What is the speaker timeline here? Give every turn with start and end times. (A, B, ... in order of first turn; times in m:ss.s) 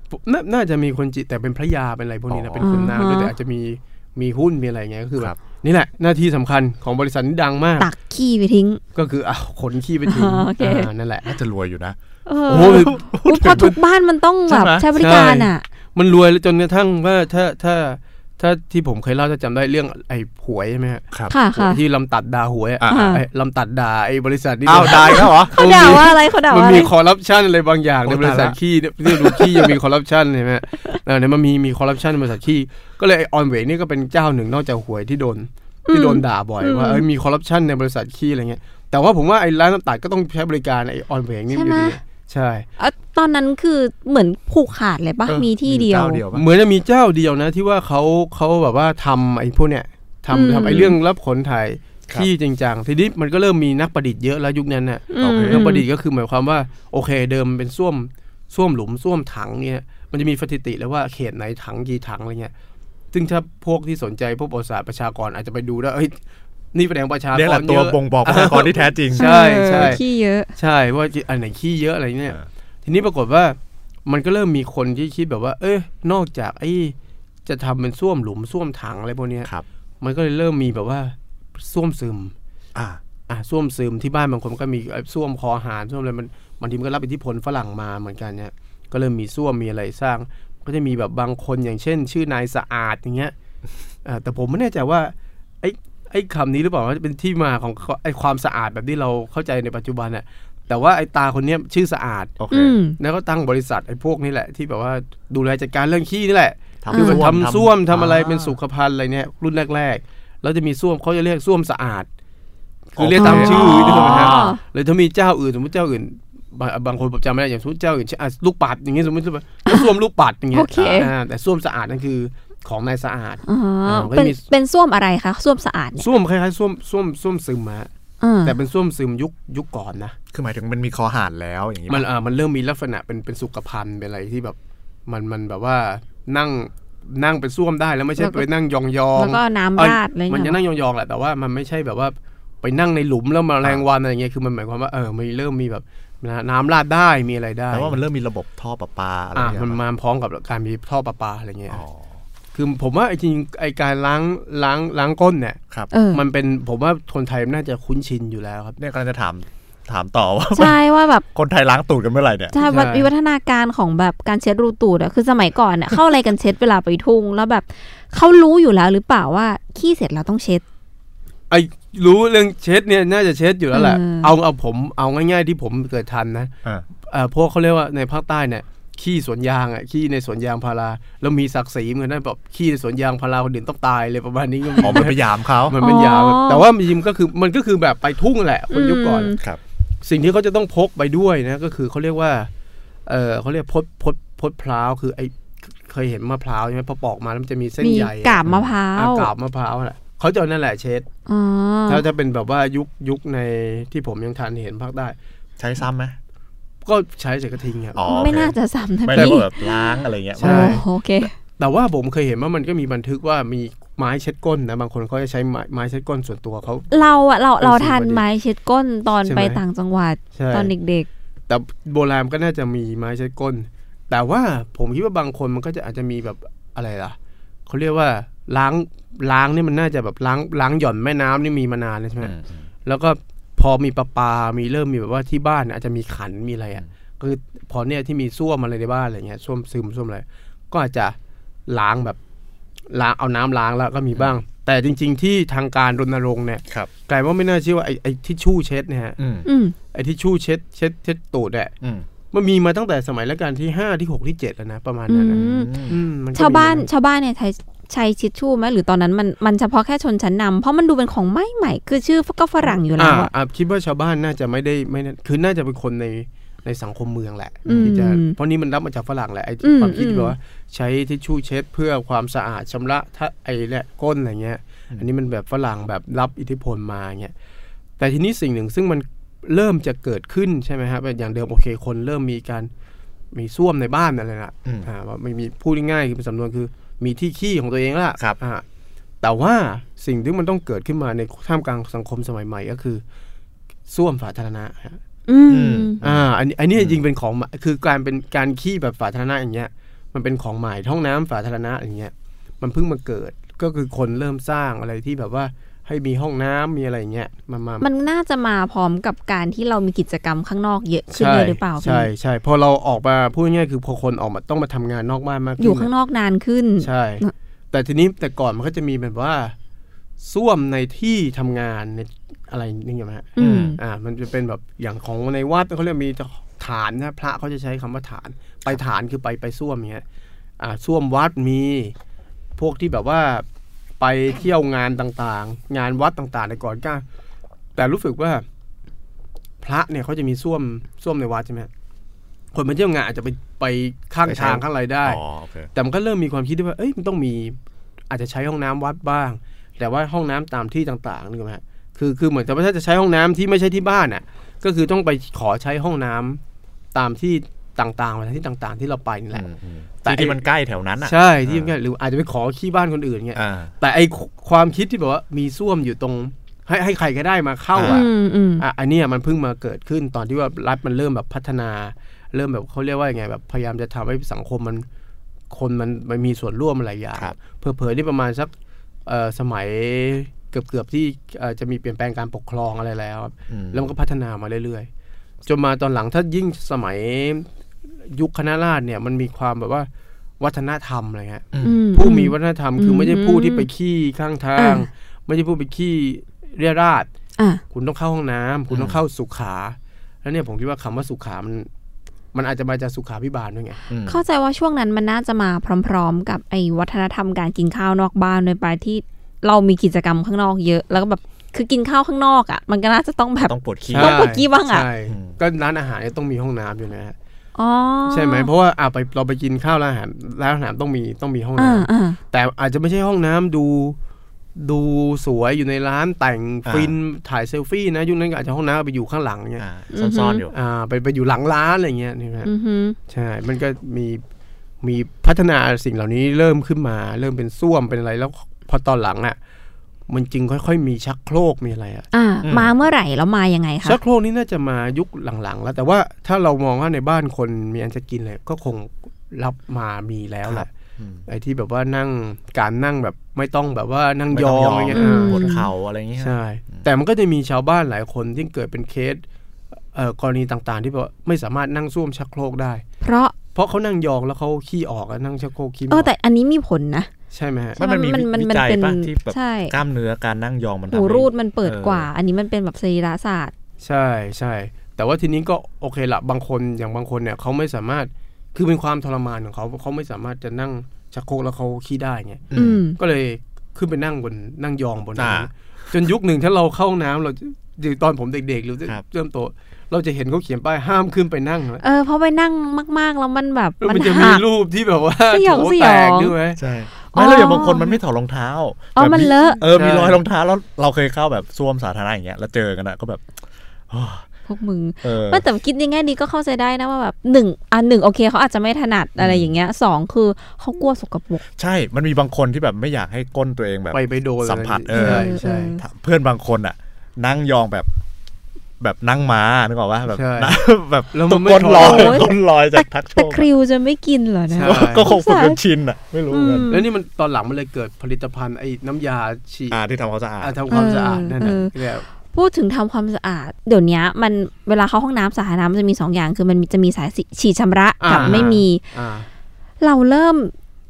0:00.1-0:07.9 A
0:02.3-0:02.9 B
0:02.6-0:03.3 C
0:07.8-0:08.8 C
0:08.9-0:11.3 A
0:10.0-0:10.9 C
0:11.2-0:12.0 B
0:12.2-0:15.6 C
0:12.5-0:13.8 B
0:12.5-0:13.0 A
0:14.5-0:14.9 B
0:15.0-0:42.7 A
0:21.3-0:21.8 C
0:22.8-0:23.2 B
0:22.9-0:23.2 C
0:24.6-0:26.0 B
0:24.9-0:26.9 C
0:28.0-0:28.6 B
0:35.9-0:37.0 C
0:41.5-0:42.0 C
0:42.8-0:46.2 C
0:45.3-0:46.4 B
0:46.3-1:02.5 A
0:50.3-0:51.0 C
0:55.1-0:55.8 C
0:55.2-0:55.7 B
1:03.1-1:06.2 A
1:06.7-1:10.0 A
1:07.3-1:10.0 B
1:09.2-1:10.5 C
1:10.6-1:16.9 A
1:17.4-1:19.5 A
1:20.0-1:22.3 A
1:22.7-1:23.0 B
1:23.3-1:33.3 A
1:34.0-1:42.4 A
1:42.4-1:42.7 B
1:42.5-1:43.0 C
1:43.0-1:52.1 A
1:46.8-1:48.5 B
1:46.9-1:47.2 C
1:52.9-2:04.4 A
1:53.0-1:54.6 B
1:53.2-1:54.6 C
1:59.6-1:59.9 C
2:00.5-2:01.1 C
2:00.7-2:01.1 B
2:03.5-2:06.1 C
2:06.0-2:07.9 A
2:08.2-2:08.5 C
2:08.4-2:10.2 A
2:10.3-2:12.0 B
2:11.9-2:14.6 A
2:15.1-2:28.0 A
2:18.2-2:18.4 C
2:19.2-2:20.6 C
2:27.7-2:29.8 B
2:29.3-2:31.8 A
2:31.7-2:32.2 B
2:32.5-2:35.6 A
2:35.9-2:36.2 C
2:36.1-2:38.8 A
2:38.8-2:40.8 B
2:40.5-2:41.2 C
2:41.3-2:42.5 B
2:42.5-2:50.6 C
2:42.6-2:43.1 A
2:51.5-2:56.5 A
2:53.7-2:54.3 C
2:57.0-3:09.3 A
3:04.8-3:05.7 B
3:05.8-3:06.6 C
3:08.7-3:09.4 C
3:10.0-3:12.5 A
3:13.0-3:18.4 A
3:17.8-3:19.3 C
3:18.4-3:18.7 B
3:18.9-3:21.0 A
3:21.3-3:22.0 C
3:21.9-3:25.2 A
3:25.6-3:26.2 B
3:26.8-3:28.0 A
3:27.9-3:30.8 B
3:28.0-3:31.3 C
3:29.1-3:29.4 A
3:30.4-3:36.9 A
3:36.9-3:41.1 C
3:37.6-3:38.2 A
3:39.2-3:39.6 A
3:40.3-3:40.7 A
3:41.5-3:47.2 A
3:47.7-3:52.3 A
3:52.2-3:52.7 B
3:52.8-4:01.2 A
4:01.7-4:02.2 A
4:02.9-4:09.2 A
4:09.2-4:09.5 B
4:09.4-4:09.7 C
4:09.9-4:11.7 A
4:12.3-4:16.9 A
4:15.1-4:15.8 C
4:15.3-4:16.0 B
4:16.3-4:23.3 C
4:22.6-4:37.3 A
4:27.6-4:27.9 B
4:27.7-4:28.4 C
4:29.6-4:30.3 C
4:38.0-4:42.7 A
4:43.3-4:48.6 A
4:49.2-4:53.0 A
4:53.9-4:55.0 A
4:55.3-4:56.0 C
4:55.5-4:57.0 B
4:56.0-5:07.8 A
5:07.8-5:12.1 C
5:11.1-5:15.9 A
5:15.6-5:17.3 C
5:16.8-5:19.5 A
5:20.2-5:30.0 A
5:23.4-5:23.8 C
5:23.4-5:23.8 B
5:30.6-5:31.9 A
5:32.6-5:33.4 A
5:34.0-5:37.0 A
5:37.8-5:38.4 A
5:39.6-5:41.7 A
5:42.5-5:45.2 A
5:44.3-5:45.7 B
5:45.7-5:47.6 A
5:48.1-5:56.4 A
5:56.9-5:59.4 A
5:59.3-6:01.7 B
6:00.0-6:00.4 A
6:01.0-6:14.8 A
6:03.3-6:03.7 B
6:07.7-6:08.0 B
6:07.8-6:08.6 C
6:15.5-6:18.5 A
6:19.0-6:24.9 A
6:23.5-6:23.9 B
6:25.4-6:27.5 A
6:28.0-6:29.9 A
6:30.4-6:37.1 A
6:31.5-6:31.8 B
6:31.6-6:33.7 C
6:34.6-6:34.8 C
6:37.7-6:41.7 A
6:38.7-6:39.0 B
6:42.3-6:43.8 A
6:43.9-6:44.2 B
6:44.1-6:54.8 C
6:53.4-6:54.2 B
6:54.0-6:57.1 A
6:55.1-6:55.4 B
6:57.6-6:58.5 C
6:58.1-7:04.0 A
7:01.6-7:02.2 C
7:04.6-7:09.6 A
7:06.6-7:06.9 B
7:09.6-7:10.5 B
7:09.9-7:10.4 C
7:10.5-7:12.5 A
7:12.4-7:13.0 C
7:13.1-7:14.2 A
7:14.8-7:19.4 A
7:20.1-7:22.0 A
7:22.1-7:24.0 C
7:22.4-7:22.7 B
7:23.8-7:30.7 A
7:30.4-7:31.2 B
7:31.2-7:35.4 A
7:34.3-7:36.8 B
7:34.9-7:35.7 C
7:36.2-7:39.2 A
7:39.9-7:42.8 A
7:43.0-7:43.3 C
7:43.5-7:46.1 A
7:45.9-7:47.1 C
7:47.3-7:47.8 A
7:47.8-7:49.7 C
7:47.8-7:52.1 B
7:50.9-7:53.5 C
7:53.8-8:11.8 A
8:02.5-8:02.8 B
8:02.5-8:03.0 C
8:05.2-8:06.0 B
8:11.8-8:14.4 C
8:13.8-8:16.6 A
8:15.3-8:16.3 C
8:16.6-8:23.2 B
8:17.1-8:18.0 C
8:18.9-8:19.6 C
8:19.7-8:20.2 A
8:23.9-8:24.3 B
8:24.5-8:31.4 C
8:25.0-8:25.4 B
8:29.2-8:29.5 B
8:31.6-8:37.9 B
8:33.9-8:35.7 A
8:34.9-8:35.8 C
8:38.8-8:43.5 B
8:40.1-8:42.3 A
8:41.7-8:45.6 C
8:44.5-8:45.1 A
8:44.6-8:46.7 B
8:46.3-8:46.9 C
8:46.7-8:49.8 A
8:49.7-8:50.5 B
8:50.4-8:52.0 A
8:50.7-8:58.8 C
8:58.0-8:59.3 A
8:59.8-9:00.5 C